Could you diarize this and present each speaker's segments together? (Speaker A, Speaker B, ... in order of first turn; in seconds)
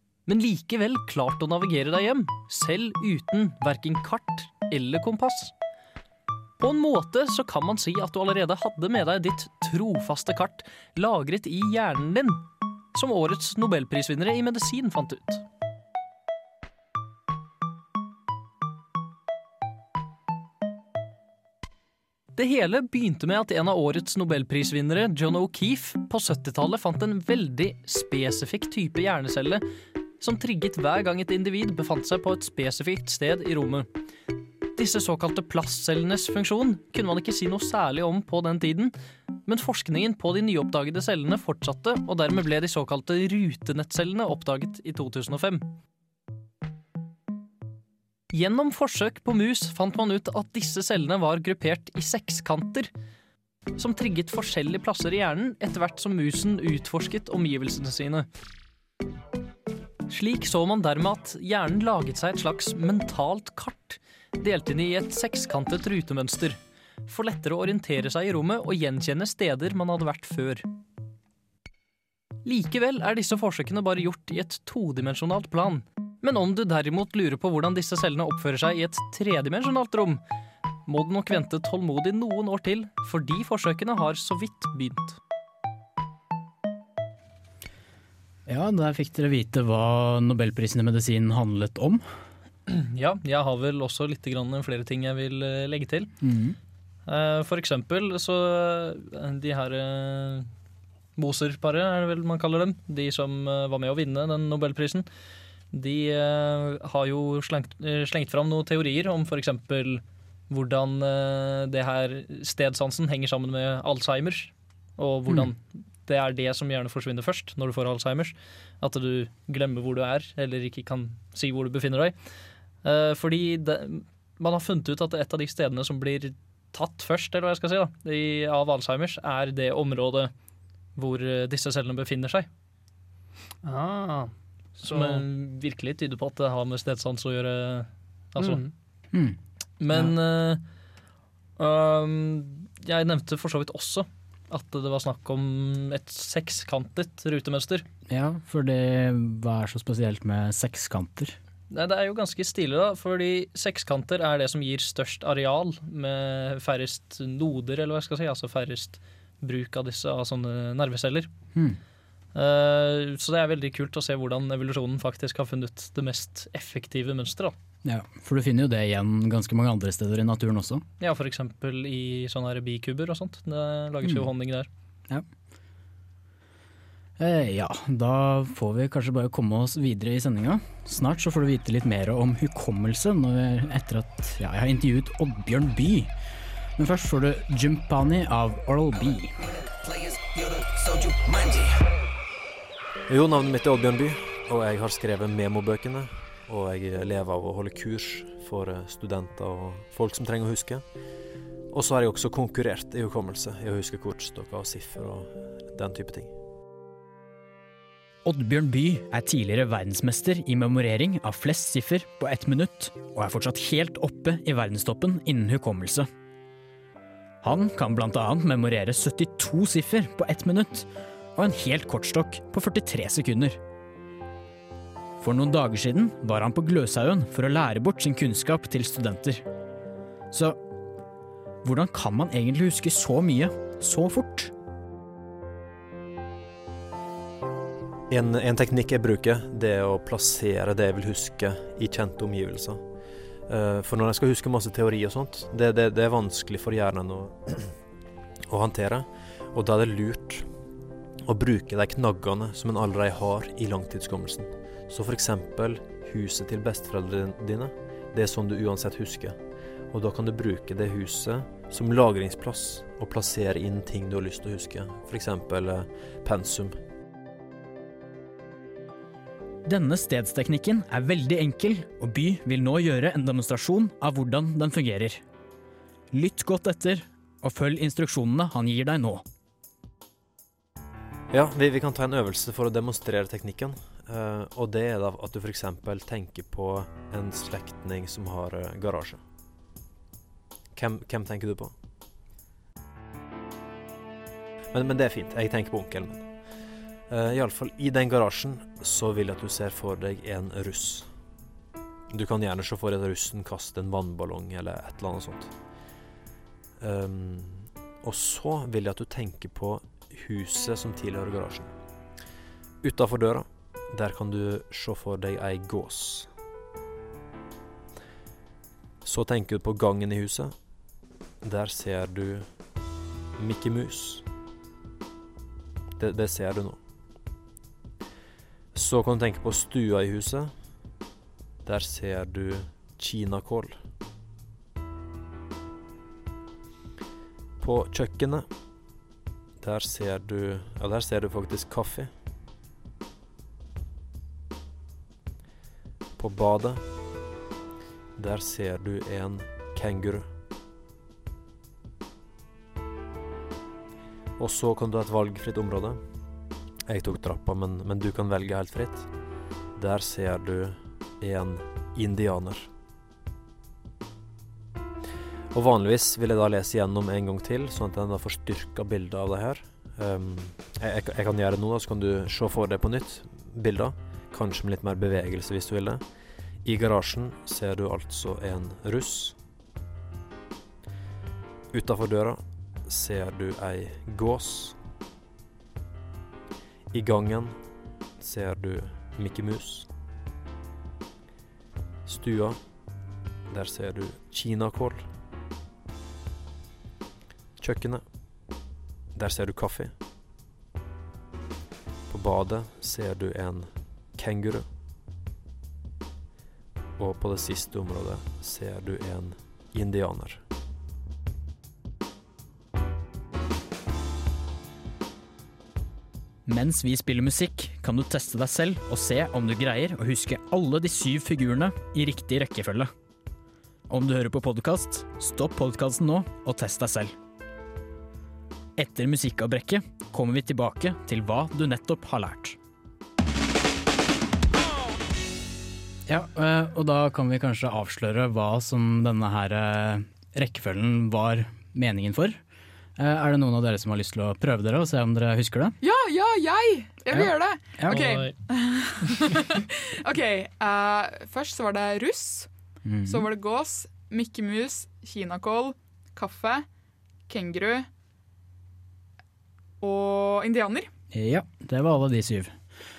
Speaker A: 0.2-5.5, 6.6-15.4, 22.3-29.6, 30.2-33.9, 34.8-45.7, 48.3-52.9, 53.8-58.3, 60.1-70.7, 72.4-80.2, 80.8-85.2, 92.7-96.1, 97.0-100.5, 101.2-105.0, 105.7-122.1, 122.8-130.3, 130.9-132.5, 134.8-138.6, 139.8-140.6, 141.6-147.8, 151.7-161.3, 162.3-167.5, 171.0-174.7, 447.9-448.3
Speaker B: 88.5-92.0, 96.2-96.6, 148.1-151.3, 161.5-161.8, 167.8-170.8, 174.0-174.3, 177.2-186.1, 186.8-189.4, 208.2-216.1, 217.4-223.6, 225.2-229.4, 230.3-230.6, 231.6-234.5, 269.6-275.2, 276.1-279.2, 416.4-422.9, 423.9-427.1, 428.8-432.6, 436.1-442.4, 443.0-445.8, 447.1-448.2, 452.8-453.3, 461.1-462.6
Speaker C: 133.6-135.2, 138.4-138.7
Speaker D: 193.1-200.8, 201.7-206.3, 238.1-242.8, 243.5-247.8, 248.5-250.5, 251.2-259.4, 259.9-266.8, 281.3-289.2, 290.7-291.7, 294.7-296.4, 297.1-301.1, 302.1-305.5, 306.8-311.7, 312.8-316.3, 319.0-320.6, 321.4-322.5, 323.4-324.2, 326.0-326.8, 328.7-330.5, 331.6-333.8, 337.6-338.5, 339.6-342.1, 346.2-346.9, 348.2-350.3, 354.4-356.0, 356.9-359.1, 359.8-362.7, 365.5-376.0, 376.6-379.4, 381.7-384.8, 386.9-387.6, 388.2-389.9, 392.0-392.6, 393.5-395.0, 397.6-398.0, 399.1-399.9, 402.1-404.6, 407.0-410.4
Speaker E: 445.8-452.5, 453.1-456.6, 457.3-457.9, 459.8-460.9